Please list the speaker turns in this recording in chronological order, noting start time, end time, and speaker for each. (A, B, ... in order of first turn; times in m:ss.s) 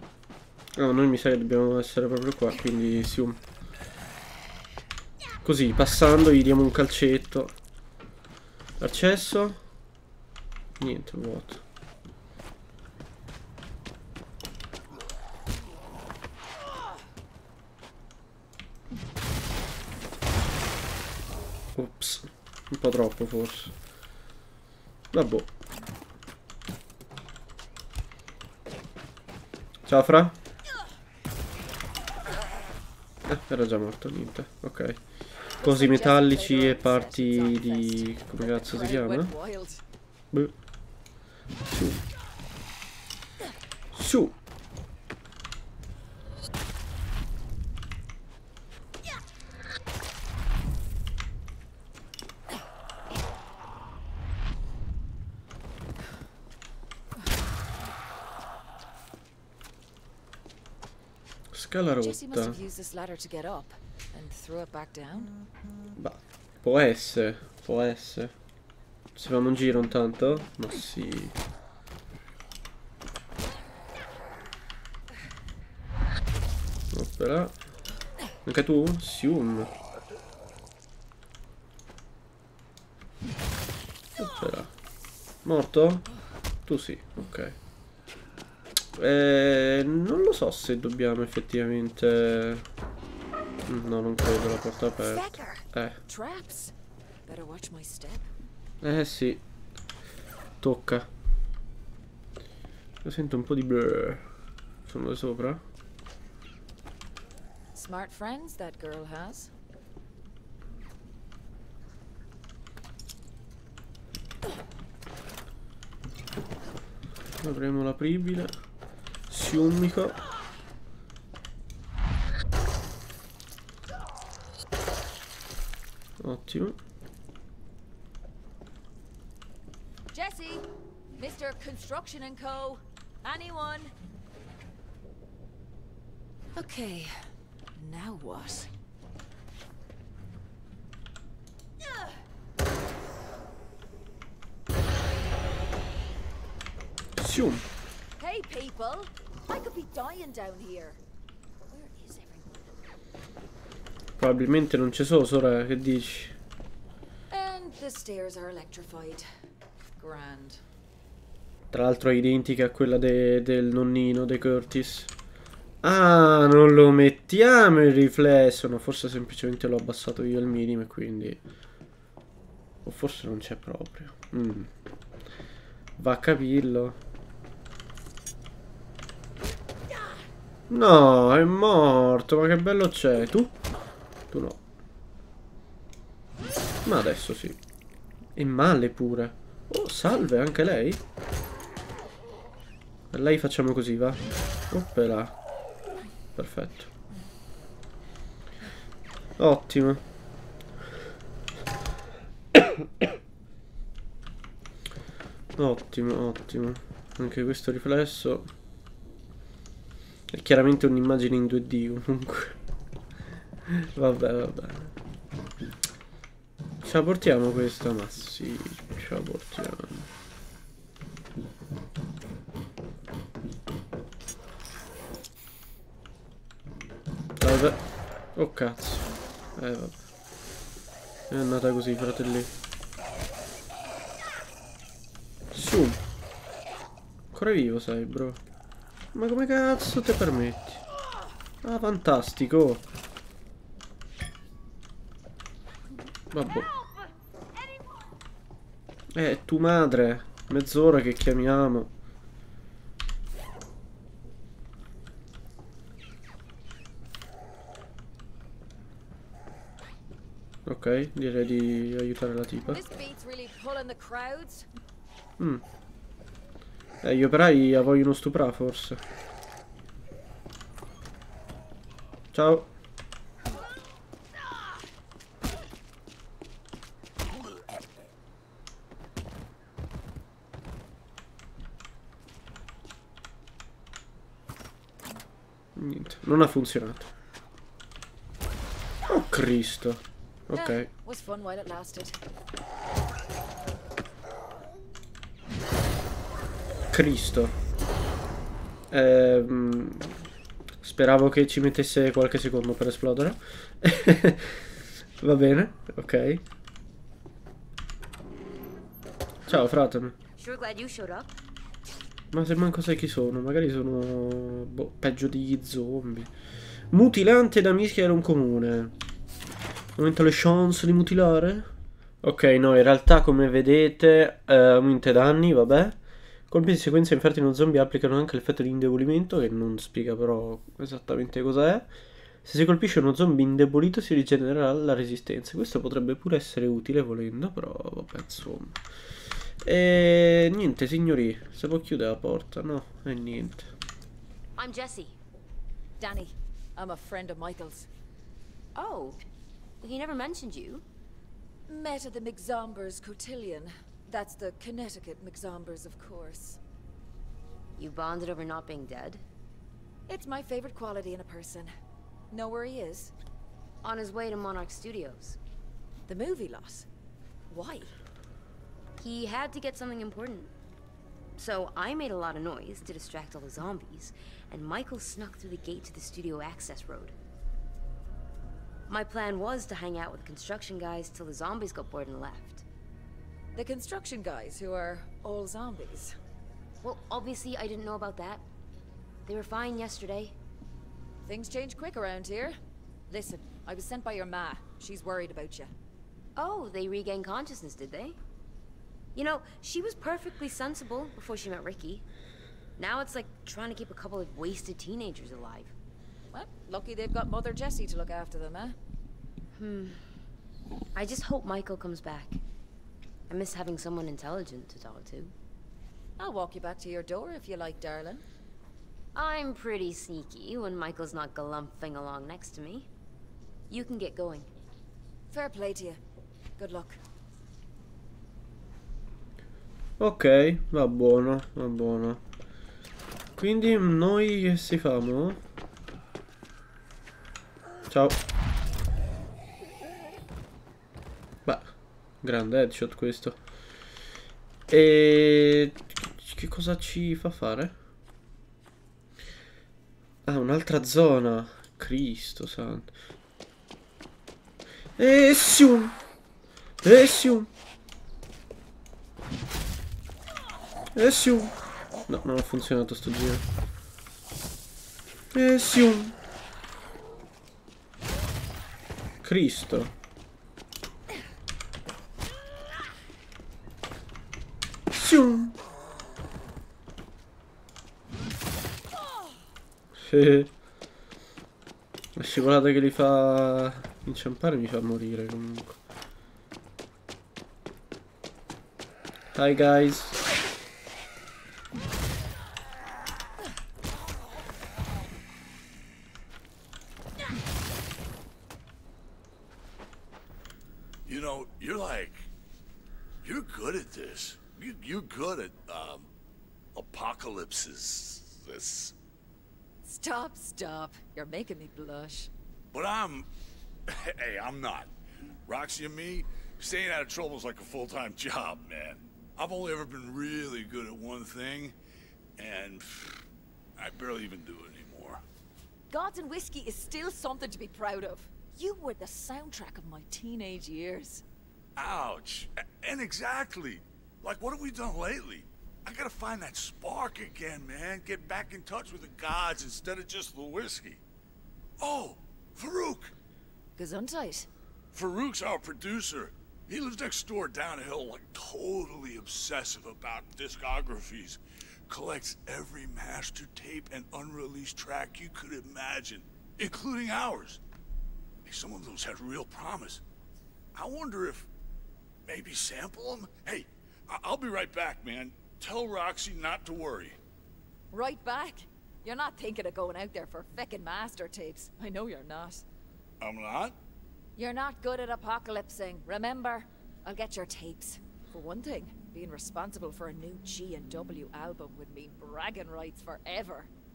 0:00.8-0:03.4 A
0:05.4-0:07.5 A
0:08.8-0:09.6 A
0:10.8-0:11.6 A
0:21.8-0:23.8 A
0:25.1-0:25.5 A
0:29.8-0:30.4 A
0:33.3-0:35.0 A
0:35.6-0:39.3 A
0:35.6-0:39.8 B
0:41.7-0:42.0 A
0:43.9-0:44.4 A
1:01.5-1:02.6 A
1:02.0-1:05.3 B
1:06.0-1:08.3 A
1:09.1-1:11.4 A
1:16.9-1:17.6 A
1:18.4-1:19.7 A
1:24.2-1:24.7 A
1:25.4-1:26.1 A
1:26.7-1:27.6 A
1:29.0-1:32.7 A
1:33.7-1:36.0 A
1:35.0-1:36.7 B
1:37.2-1:38.3 B
1:38.8-1:39.4 A
1:40.6-1:41.1 A
1:43.0-1:44.2 A
1:44.8-1:45.6 A
1:47.7-1:49.5 B
1:57.4-1:58.6 A
1:59.3-2:00.2 A
2:06.2-2:06.8 A
2:10.1-2:10.7 B
2:11.2-2:13.9 B
2:16.6-2:17.1 B
2:17.8-2:18.7 B
2:27.2-2:27.6 A
2:28.2-2:31.0 B
2:31.7-2:32.7 B
2:34.2-2:36.4 A
2:37.3-2:39.3 B
2:40.0-2:40.6 B
2:41.7-2:45.1 A
2:45.8-2:51.4 A
2:52.8-2:54.7 A
2:56.0-2:57.0 A
3:00.7-3:03.6 A
3:04.3-3:04.6 A
3:06.8-3:07.6 A
3:08.4-3:11.0 A
3:13.1-3:15.4 A
3:16.4-3:16.9 A
3:19.4-3:20.0 A
3:22.6-3:23.0 A
3:25.6-3:28.5 A
3:30.3-3:32.6 A
3:33.7-3:34.9 A
3:36.8-3:40.1 A
3:47.4-3:47.8 A
3:48.4-3:49.0 A
3:49.6-3:50.0 A
3:51.3-3:52.5 A
3:55.5-3:56.0 A
3:57.3-3:58.4 A
3:59.1-4:00.8 A
4:01.6-4:02.9 A
4:06.3-4:06.7 A
4:09.1-4:11.9 A
4:20.7-4:22.8 A
4:22.6-4:24.7 B
4:27.0-4:29.0 A
4:32.3-4:32.7 A
4:45.8-4:47.1 A
4:49.1-4:50.9 A
4:50.5-4:52.2 B
4:56.9-4:57.6 A
4:58.9-5:00.3 A
5:00.8-5:06.4 A
5:09.5-5:10.2 A
5:10.4-5:11.4 C
5:12.3-5:16.3 A
5:16.9-5:18.9 A
5:20.0-5:21.7 A
5:22.2-5:26.0 A
5:26.5-5:31.9 A
5:32.4-5:38.8 A
5:39.6-5:43.7 A
5:44.6-5:45.2 C
5:46.0-5:47.9 B
5:48.8-5:49.2 C
5:49.8-5:50.8 C
5:51.7-5:56.6 B
5:57.8-5:59.2 C
6:00.1-6:01.7 B
6:02.3-6:03.1 B
6:03.8-6:05.4 C
6:06.1-6:06.9 B
6:07.5-6:07.9 B
6:09.0-6:10.5 C
6:11.4-6:17.2 C
6:18.9-6:22.6 C
6:23.6-6:26.1 B
6:26.8-6:28.4 C
6:29.3-6:30.4 C
6:31.2-6:32.5 B
6:33.1-6:35.7 B
6:36.4-6:38.2 C
6:39.2-6:42.1 C
6:42.8-6:45.7 C
6:46.3-6:48.8 B
6:49.6-6:50.0 C
6:50.9-6:52.4 C
6:53.3-6:55.3 C
6:56.2-6:58.2 B
6:59.2-7:02.9 C
7:03.7-7:04.5 C
7:05.3-7:06.0 B
7:06.6-7:07.0 B
7:10.0-7:12.2 A
7:13.4-7:15.4 A
7:17.9-7:18.2 A
7:21.5-7:23.4 A
7:24.7-7:27.8 A
7:30.2-7:32.9 A
7:35.0-7:36.0 A
7:36.8-7:37.5 A
7:41.0-7:41.6 A
7:42.1-7:43.4 A
7:45.3-7:46.2 A
7:49.2-7:49.9 A
7:54.9-7:55.6 A
8:00.0-8:00.5 A
8:02.2-8:05.8 A
8:09.3-8:10.2 A
8:21.1-8:22.3 D
8:23.2-8:26.1 D
8:26.8-8:28.9 D
8:29.8-8:32.3 B
8:32.7-8:33.3 D
8:33.9-8:34.9 D
8:35.5-8:41.8 D
8:42.4-8:43.2 D
8:43.8-8:45.2 D
8:45.9-8:51.2 B
8:51.8-9:01.0 D
9:01.8-9:03.1 D
9:03.8-9:04.5 B
9:04.9-9:17.6 D
9:18.4-9:20.0 D
9:20.8-9:21.5 D
9:22.2-9:27.2 D
9:27.9-9:32.6 B
9:33.2-9:33.8 D
9:34.4-9:43.7 B